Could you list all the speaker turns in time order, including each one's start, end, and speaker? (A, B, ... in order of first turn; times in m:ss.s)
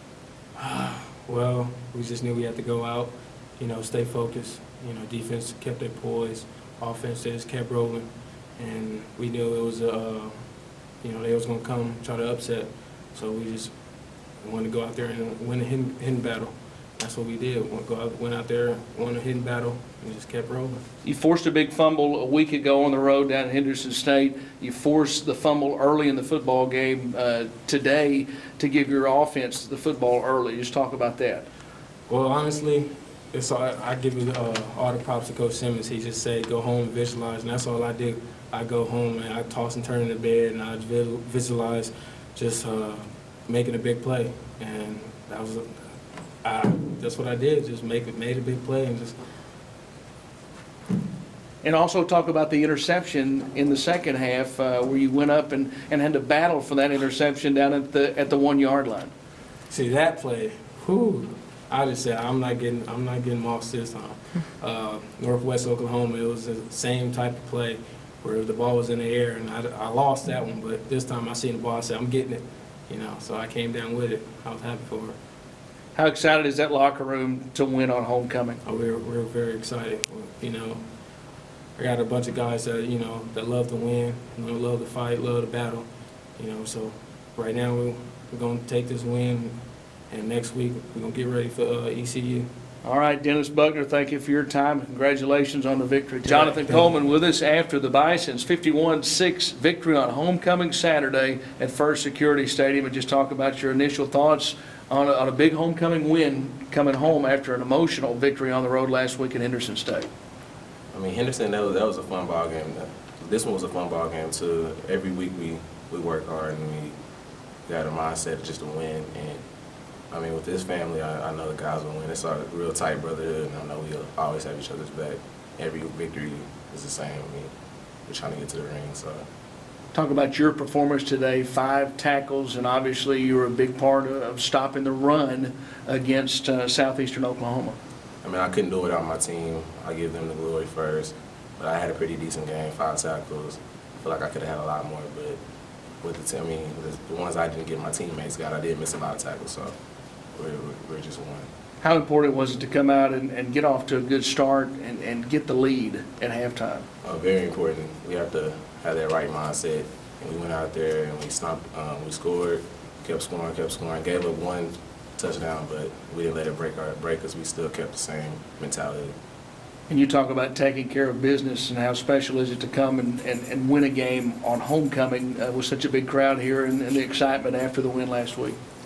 0:00.6-0:10.3 A
0:11.0-0:13.7 A
0:14.4-0:20.8 A
0:21.0-0:31.4 B
0:32.1-0:45.6 A
0:46.4-0:49.1 A
0:51.6-0:59.1 B
0:59.7-1:15.2 A
1:15.9-1:18.6 B
1:18.6-1:20.8 A
1:21.8-1:25.8 A
1:26.4-1:29.5 A
1:30.1-1:32.5 A
1:32.8-1:50.1 B
1:50.9-1:56.9 C
1:57.6-1:59.4 C
2:00.1-2:07.5 C
2:08.1-2:09.2 C
2:09.9-2:17.8 B
2:18.2-2:25.4 C
2:26.0-2:29.7 C
2:30.3-2:31.5 C
2:31.8-2:36.8 B
2:37.0-2:49.1 C
2:49.9-2:58.6 B